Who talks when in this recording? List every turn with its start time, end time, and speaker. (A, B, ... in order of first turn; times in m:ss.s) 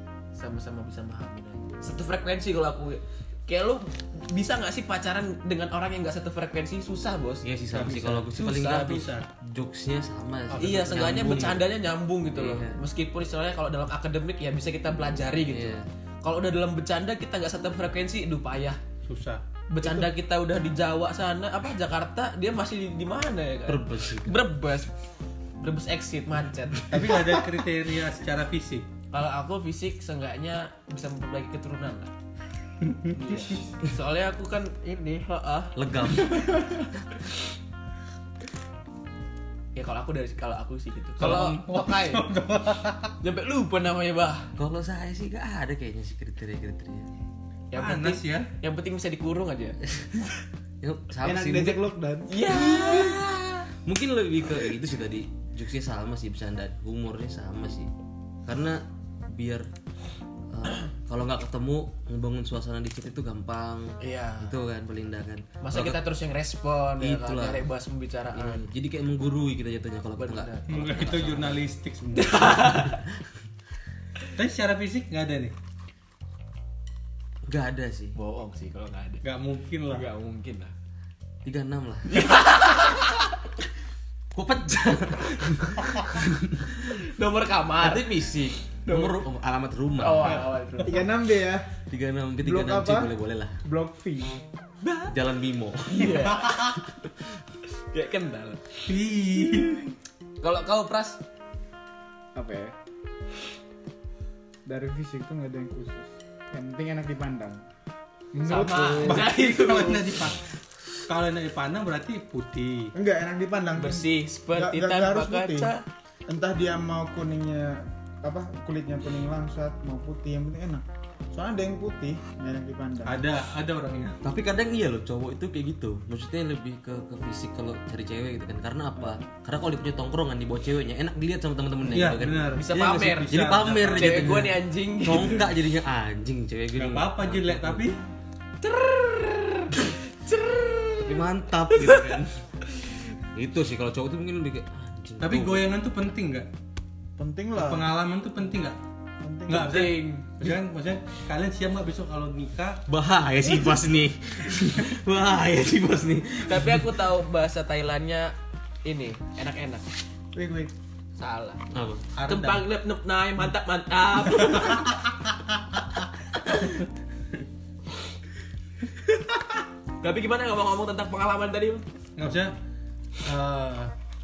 0:00.3-0:07.4 A
0:07.4-0:11.6 B
0:07.7-0:09.3 C
0:10.5-0:11.6 C
0:10.6-0:18.8 A
0:12.3-0:12.8 B
0:15.5-0:15.9 B
0:19.0-0:19.4 C
0:19.7-0:24.9 A
0:23.7-0:24.4 B
0:25.6-0:27.1 A
0:26.9-0:28.9 C
0:29.1-0:32.1 A
0:33.1-0:36.8 A
0:35.8-0:37.1 B
0:39.8-0:42.3 A
0:41.2-0:43.1 C
0:43.2-0:44.5 A
0:44.6-0:47.1 B
0:47.7-0:49.8 A
0:47.8-0:48.5 C
0:50.8-0:51.9 B
0:51.2-0:52.3 D
0:52.3-0:53.2 A
0:52.5-0:57.9 B
0:58.4-0:59.7 B
1:00.5-1:06.0 B
1:04.0-1:04.6 A
1:05.6-1:08.7 A
1:07.0-1:07.7 B
1:08.3-1:11.6 B
1:10.2-1:11.1 A
1:10.7-1:12.8 C
1:12.2-1:13.0 A
1:12.8-1:13.4 B
1:14.3-1:15.6 C
1:17.4-1:18.2 B
1:18.2-1:19.2 A
1:19.2-1:20.0 C
1:19.9-1:20.7 A
1:21.4-1:22.4 B
1:22.1-1:23.3 A
1:24.3-1:26.9 B
1:26.9-1:29.2 A
1:27.8-1:30.5 B
1:30.0-1:31.1 A
1:30.8-1:31.8 D
1:31.9-1:33.6 B
1:32.4-1:33.1 D
1:33.6-1:34.4 D
1:34.8-1:35.1 A
1:35.1-1:36.5 B
1:35.9-1:37.1 A
1:37.7-1:38.8 A
1:38.8-1:39.9 C
1:39.4-1:39.9 A
1:40.4-1:41.2 A
1:42.4-1:42.7 D
1:44.7-1:47.6 D
1:48.3-1:49.3 D
1:48.4-1:50.3 A
1:49.1-1:50.4 C
1:51.0-1:52.9 C
1:53.0-1:55.7 D
1:53.8-1:55.8 A
1:56.3-2:03.2 D
2:03.0-2:04.2 C
2:04.2-2:12.6 B
2:11.9-2:14.5 C
2:12.6-2:15.5 A
2:13.3-2:17.9 B
2:16.8-2:18.0 C
2:18.6-2:22.2 A
2:21.0-2:22.5 B
2:23.3-2:25.7 B
2:25.2-2:26.5 C
2:27.2-2:27.9 D
2:27.6-2:28.8 C
2:29.2-2:29.8 D
2:29.5-2:32.8 C
2:29.6-2:30.3 A
2:32.9-2:36.9 B
2:36.4-2:38.3 A
2:38.8-2:39.9 A
2:40.3-2:40.7 D
2:41.2-2:41.6 A
2:41.7-2:42.1 B
2:42.2-2:42.6 C
2:42.2-2:44.9 A
2:44.5-2:44.8 C
2:46.4-2:46.8 A
2:49.0-2:51.9 A
2:52.2-2:52.5 C
2:53.2-2:53.9 C